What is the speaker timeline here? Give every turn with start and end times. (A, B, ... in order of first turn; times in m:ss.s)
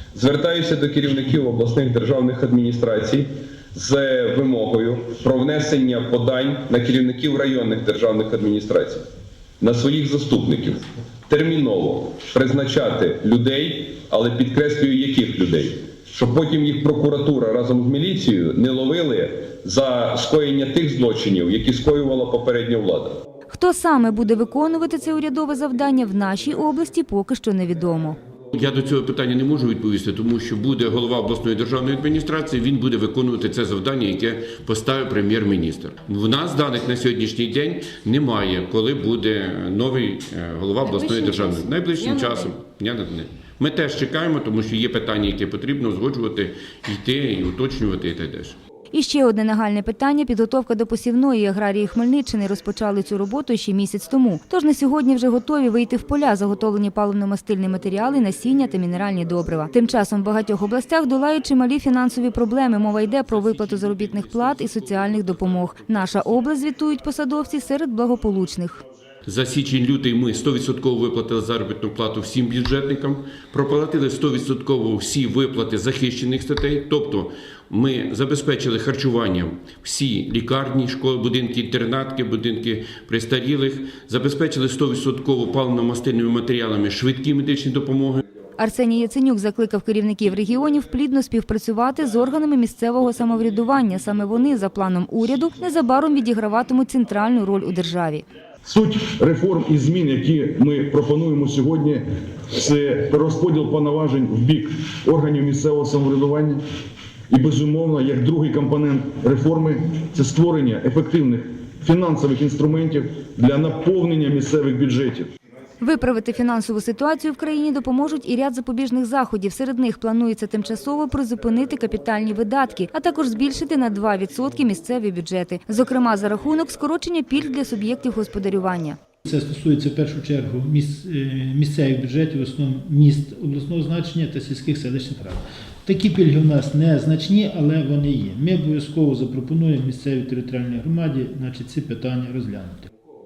0:00.2-0:09.1 A
0:09.6-0:23.2 A
0:23.5-0:28.2 B
0:28.5-0:48.6 C
0:48.9-1:08.8 B
1:04.0-1:04.2 C
1:09.3-1:28.2 C
1:28.6-1:38.2 B
1:38.7-1:46.6 D
1:47.3-1:55.3 D
1:55.8-2:09.0 B
2:09.3-2:22.9 E